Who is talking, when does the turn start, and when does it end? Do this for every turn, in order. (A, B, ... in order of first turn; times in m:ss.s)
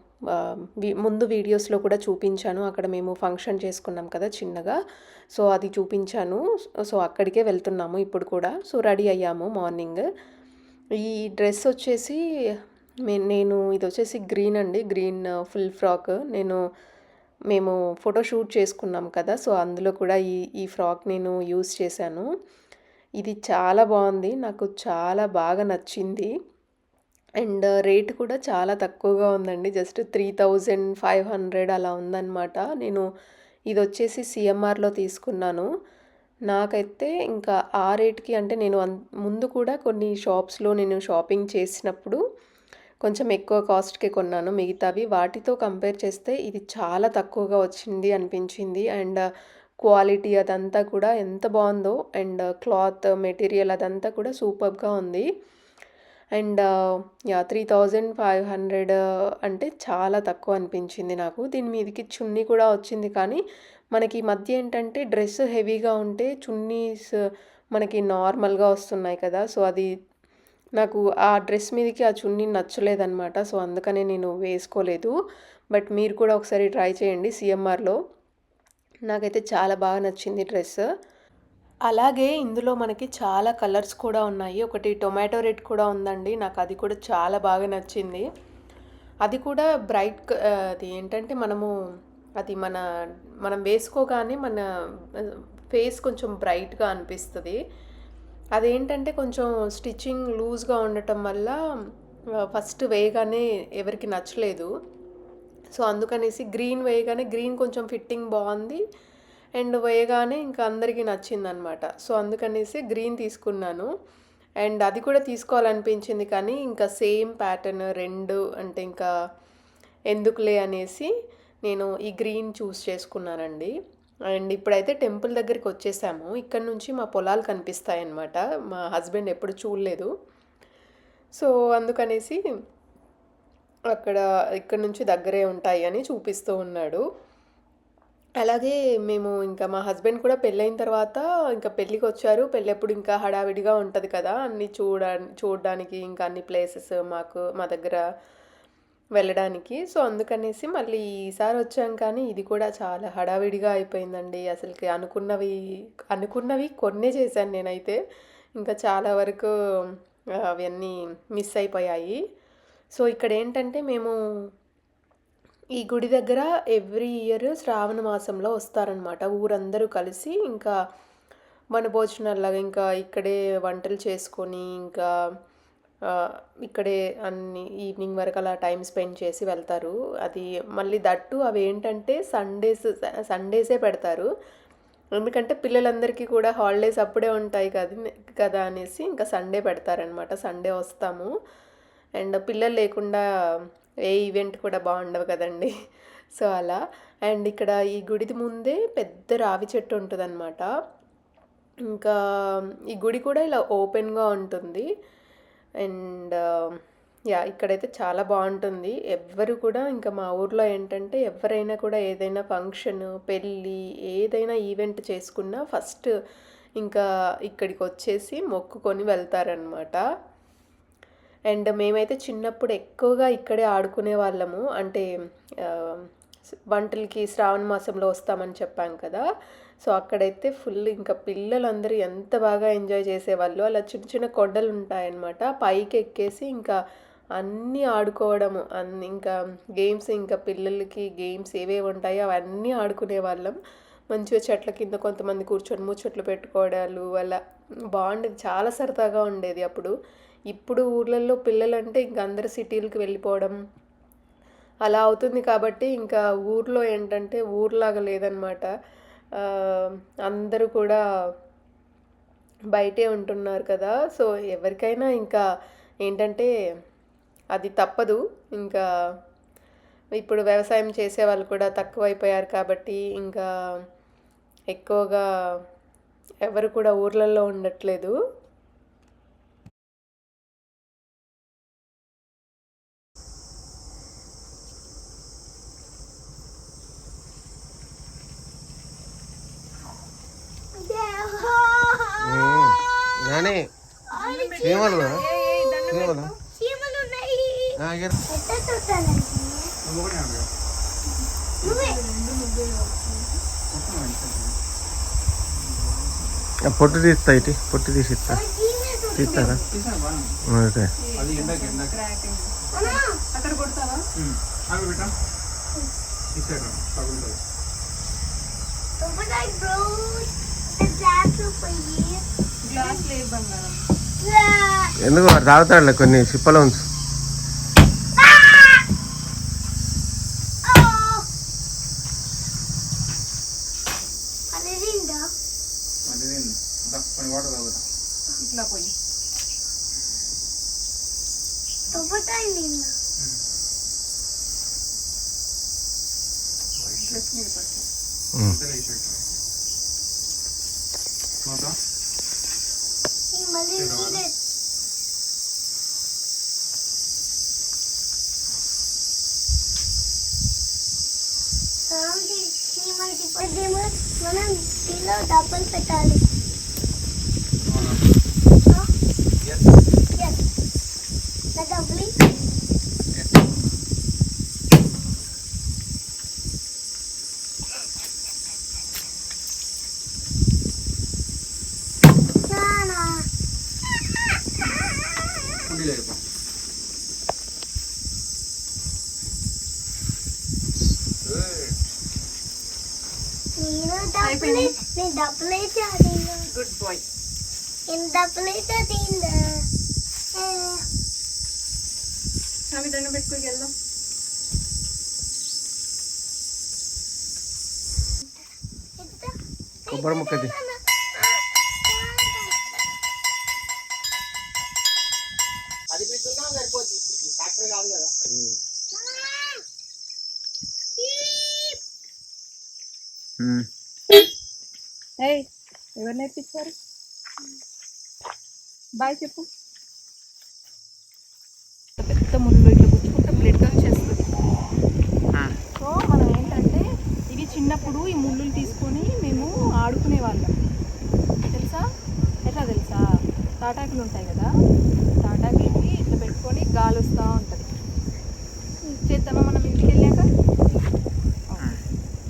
0:00.3-0:04.8 A
0:05.3-0:10.1 A
0:11.0-0:12.2 A
0:13.1-0:16.6 A
0:17.5-0:22.3 A
0:23.2-0:26.3 A
0:27.4-0:33.1 A
0:33.7-0:35.7 A
0:36.5-0:42.2 A
0:43.0-0:49.2 A
0:49.8-0:55.3 A
0:56.4-0:56.7 A
0:57.3-1:03.4 A
1:03.9-1:07.1 A
1:07.7-1:09.9 A
1:10.8-1:15.1 A
1:15.7-1:18.0 A
1:19.1-1:20.8 A
1:21.9-1:28.3 A
1:29.2-1:31.7 A
1:32.4-1:32.8 A
1:33.4-1:34.6 A
1:35.2-1:37.6 A
1:38.6-1:41.6 A
1:42.4-1:44.7 A
1:45.8-1:48.8 A
1:49.6-1:53.9 A
1:54.6-1:59.1 A
2:00.1-2:01.1 A
2:01.6-2:03.7 A
2:04.3-2:10.1 A
2:11.4-2:12.4 A
2:13.9-2:17.0 A
2:18.4-2:28.0 A
2:29.2-2:35.6 A
2:36.1-2:38.0 A
2:38.6-2:39.5 A
2:40.4-2:42.2 A
2:42.9-2:44.2 A
2:45.8-2:50.7 A
2:51.7-2:55.1 A
2:56.1-3:04.3 A
3:05.2-3:11.3 A
3:12.2-3:13.2 A
3:14.1-3:15.7 A
3:16.3-3:20.7 A
3:21.9-3:24.9 A
3:25.8-3:26.8 A
3:27.4-3:36.1 A
3:36.8-3:40.0 A
3:41.5-3:45.1 A
3:45.6-3:46.1 A
3:46.7-3:49.2 A
3:49.8-3:56.8 A
3:57.4-4:03.6 A
4:04.1-4:07.4 A
4:07.9-4:09.9 A
4:10.5-4:13.6 A
4:14.8-4:18.7 A
4:19.4-4:21.0 A
4:22.7-4:25.4 A
4:26.0-4:26.5 A
4:27.5-4:28.8 A
4:30.2-4:33.5 A
4:34.7-4:35.2 A
4:36.4-4:38.2 A
4:50.8-4:53.5 B
4:52.2-4:53.7 C
4:54.1-4:55.9 B
4:54.2-4:56.3 D
4:54.6-4:55.2 C
4:55.9-4:56.3 C
4:56.5-4:59.7 B
4:57.8-4:58.1 C
4:59.8-5:00.5 E
5:01.6-5:02.0 B
5:01.6-5:03.4 D
5:03.7-5:04.6 E
5:05.5-5:06.4 E
5:06.6-5:08.4 C
5:08.2-5:09.6 B
5:09.1-5:09.6 C
5:09.6-5:10.4 E
5:10.4-5:10.9 C
5:11.1-5:14.0 D
5:11.2-5:12.0 E
5:12.7-5:13.2 B
5:14.2-5:15.1 E
5:16.3-5:17.4 E
5:19.0-5:23.0 B
5:22.7-5:23.8 D
5:24.2-5:24.9 B
5:25.0-5:26.8 C
5:28.2-5:28.8 B
5:30.6-5:31.3 B
5:34.5-5:35.3 B
5:36.0-5:37.8 E
5:38.4-5:38.9 D
5:41.9-5:42.9 B
5:46.8-5:47.3 E
5:47.0-5:47.8 D
5:48.4-5:49.3 E
5:51.4-5:51.8 E
5:53.3-5:54.4 B
5:53.7-5:54.2 E
6:01.9-6:06.2 B
6:07.7-6:08.0 E
6:10.1-6:10.4 B
6:11.5-6:12.2 B
6:22.4-6:23.2 B
6:25.7-6:26.2 E
6:31.2-6:31.7 E
6:33.6-6:36.4 B
6:34.2-6:34.7 D
6:36.5-6:37.0 D
6:37.9-6:39.6 B
6:40.3-6:40.8 B
6:42.7-6:43.7 D
6:49.0-6:52.6 B
6:49.9-6:50.5 C
6:58.9-6:59.6 B
7:01.2-7:01.7 D
7:05.2-7:06.7 D
7:09.0-7:09.4 D
7:12.0-7:14.2 D
7:15.8-7:20.5 D
7:21.5-7:21.8 D
7:22.4-7:23.0 D
7:23.6-7:24.5 D
7:25.2-7:27.7 D
7:28.9-7:30.3 D